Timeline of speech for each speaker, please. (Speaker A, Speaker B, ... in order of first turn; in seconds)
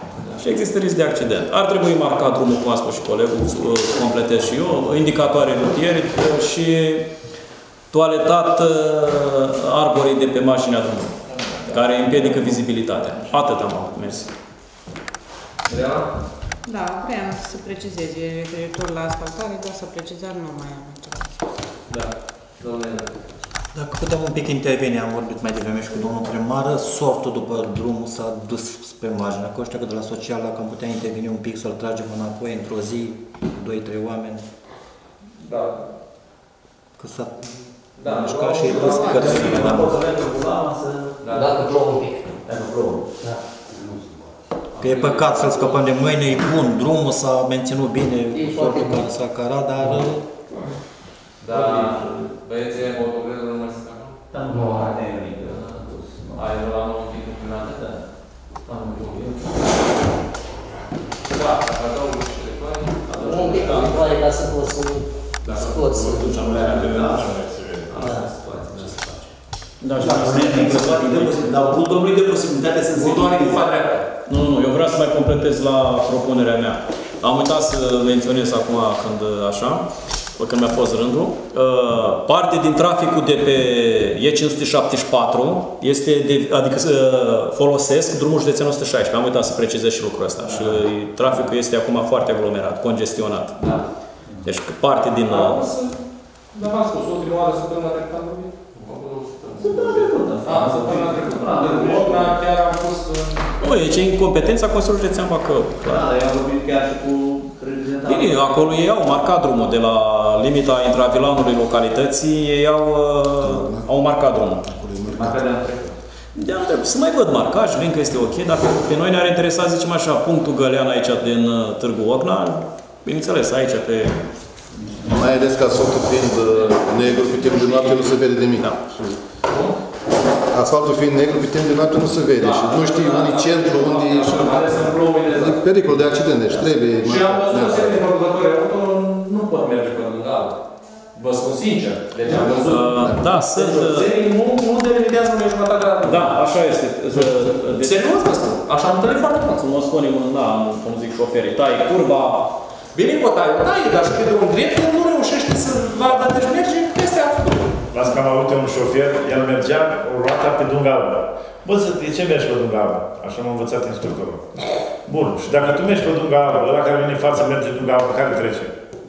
Speaker A: 0.4-7.1, 7.9-11.1, 11.7-14.3, 69.8-71.5, 74.3-93.6, 94.4-95.7, 103.6-106.1, 108.0-114.7, 116.3-124.1, 142.6-144.1, 146.0-148.1, 149.6-152.5
Speaker B: 15.7-16.1, 21.9-23.1, 35.4-35.8, 38.0-39.9, 41.2-41.5, 44.8-46.0, 51.4-54.1, 55.4-55.7, 56.4-57.9, 58.7-59.2, 61.2-64.1, 65.4-65.8, 67.9-69.3, 72.9-74.1, 90.5-90.8, 93.6-93.8, 95.3-96.0, 96.5-103.5, 126.5-128.2, 129.5-129.8, 132.4-140.6, 141.1-146.4, 147.2-149.6, 152.9-157.8
Speaker C: 16.7-21.3
Speaker D: 23.7-34.4, 37.0-40.8, 44.8-50.2, 54.3-55.5
Speaker E: 39.5-41.0, 42.5-43.0, 51.5-51.8, 54.3-56.4, 58.7-59.4, 65.9-67.3, 68.0-68.2, 69.9-73.6, 99.6-102.4, 105.8-108.8, 115.1-115.9
Speaker F: 41.3-42.3, 48.3-49.1, 63.1-66.2
Speaker G: 65.7-68.1, 157.9-168.7
Speaker H: 113.4-113.9, 114.6-115.4, 125.0-129.2, 130.5-138.0, 142.3-143.2